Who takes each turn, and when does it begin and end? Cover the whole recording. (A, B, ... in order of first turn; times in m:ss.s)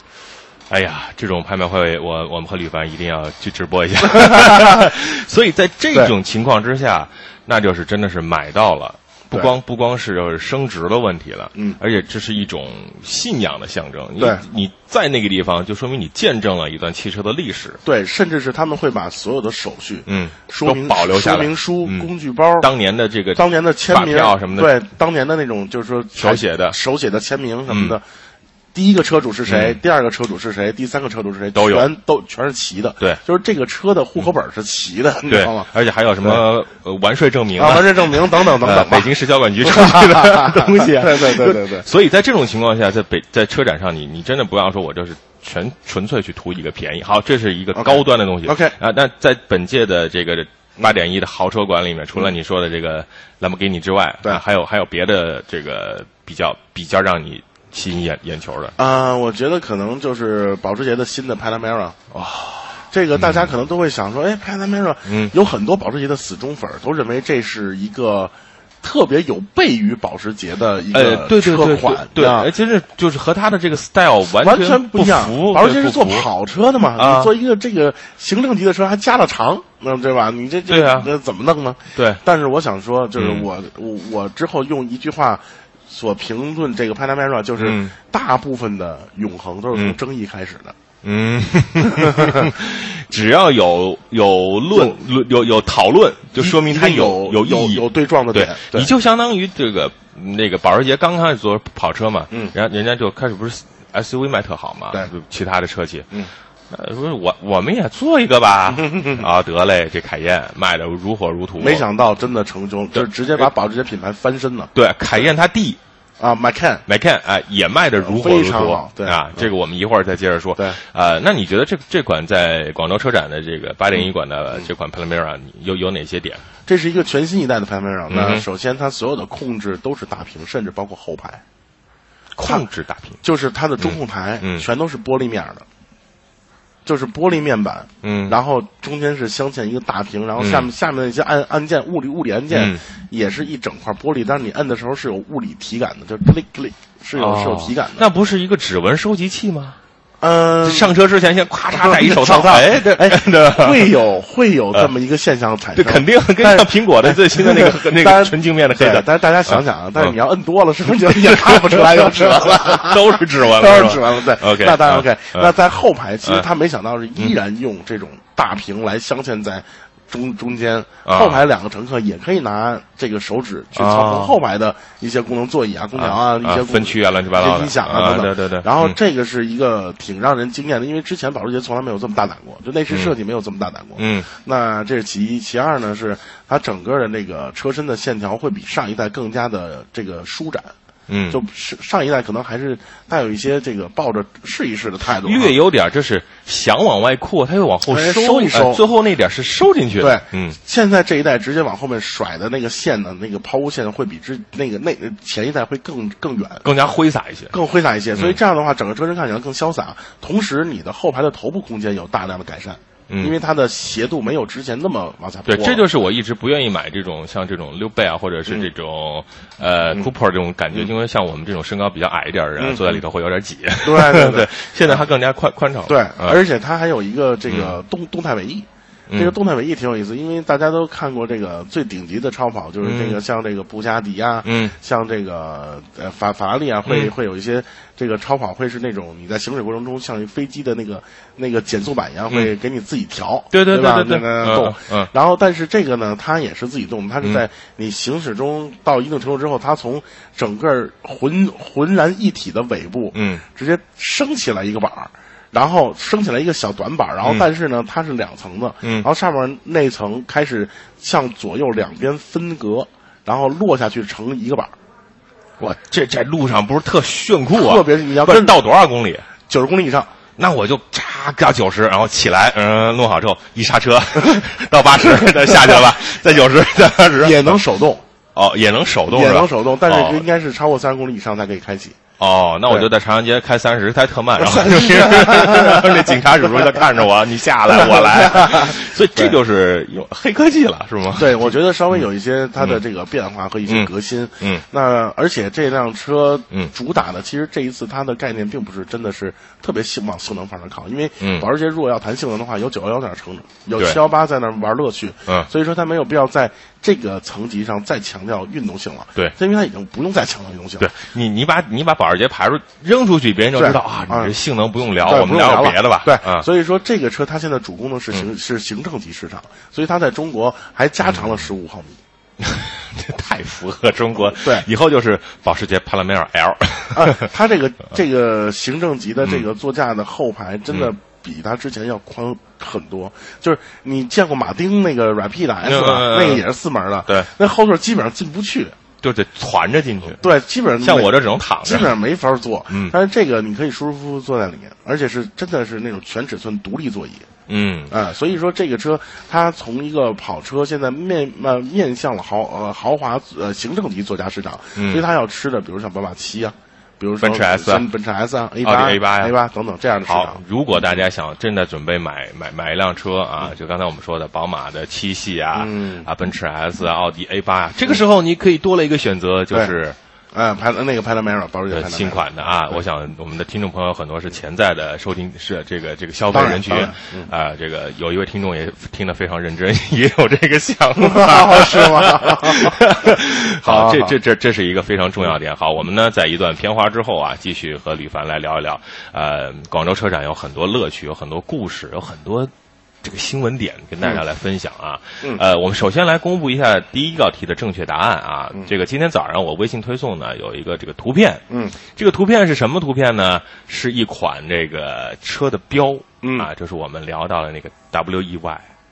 0:00.7-0:17.8 A
0:04.1-0:04.8 B
0:14.2-0:14.4 B
0:17.8-0:22.7 B
0:20.0-0:24.7 A
0:23.3-0:28.0 B
0:26.2-0:26.8 A
0:27.7-0:28.0 A
0:28.7-0:35.7 B
0:29.4-0:29.8 A
0:31.5-0:31.9 A
0:35.3-0:58.8 A
0:37.6-0:39.1 B
0:39.6-0:41.9 B
0:47.7-0:48.8 B
0:58.8-1:02.1 B
1:02.1-1:03.4 A
1:02.9-1:12.5 B
1:05.0-1:05.3 A
1:10.9-1:16.3 A
1:14.4-1:30.7 B
1:17.0-1:17.3 A
1:20.7-1:21.1 A
1:23.2-1:23.5 A
1:27.6-1:27.9 A
1:31.0-1:46.1 A
1:32.0-1:32.4 B
1:36.4-1:38.9 B
1:46.7-1:51.8 A
1:48.7-1:49.2 B
1:51.6-1:55.3 B
1:52.9-1:53.5 A
1:54.7-1:55.8 A
1:56.2-1:56.8 B
1:56.8-2:06.4 A
1:58.0-1:59.5 B
2:06.6-2:11.4 B
2:08.1-2:08.4 A
2:12.3-2:13.2 A
2:13.2-2:15.6 B
2:13.8-2:14.6 A
2:16.8-2:28.0 B
2:18.0-2:18.4 A
2:20.4-2:20.7 A
2:22.5-2:22.8 A
2:27.2-2:29.8 A
2:30.2-2:30.9 B
2:30.6-2:33.9 A
2:31.8-3:10.7 B
2:35.7-2:40.1 A
2:41.0-2:45.5 A
2:51.0-2:51.4 A
2:53.7-2:54.4 A
2:56.0-2:58.9 A
3:04.0-3:04.3 A
3:11.1-3:11.4 A
3:11.3-3:15.6 B
3:15.2-3:20.6 A
3:17.9-3:18.8 B
3:20.0-3:26.6 B
3:26.6-3:27.5 A
3:27.5-3:35.8 B
3:33.1-3:33.3 A
3:35.5-3:46.4 A
3:42.6-3:43.0 B
3:43.8-3:45.1 B
3:45.8-4:24.7 B
3:47.5-3:47.7 A
3:49.1-3:49.3 A
3:52.8-3:53.2 A
3:54.4-3:54.7 A
3:56.8-3:57.1 A
4:03.5-4:05.1 A
4:13.1-4:13.4 A
4:25.6-4:29.3 A
4:27.5-4:28.6 B
4:29.5-4:30.1 B
4:30.4-4:37.6 A
4:35.0-4:35.9 B
4:37.2-4:38.0 B
4:38.3-4:40.2 A
4:39.1-4:42.0 B
4:42.2-4:51.5 A
4:44.4-4:46.8 B
4:47.7-4:49.4 B
4:51.1-5:10.9 B
5:01.2-5:01.5 A
5:10.8-5:16.4 A
5:13.5-5:14.3 B
5:15.0-5:22.0 B
5:21.0-5:21.3 A
5:22.4-5:27.3 A
5:24.1-5:24.7 B
5:26.9-5:38.7 B
5:35.6-5:36.4 A
5:39.0-5:40.2 A
5:40.2-5:47.2 B
5:40.8-5:41.9 A
5:47.5-5:47.9 A
5:47.9-6:01.0 B
5:54.7-5:55.0 A
5:57.2-5:57.9 A
5:58.6-5:59.3 A
6:00.0-6:10.0 A
6:05.5-6:06.1 B
6:10.3-6:12.8 B
6:11.7-6:32.5 A
6:16.3-6:17.3 B
6:21.0-6:22.9 B
6:23.6-6:24.2 B
6:33.0-6:41.4 A
6:41.5-6:41.8 B
6:41.9-6:48.6 A
6:46.2-6:46.5 B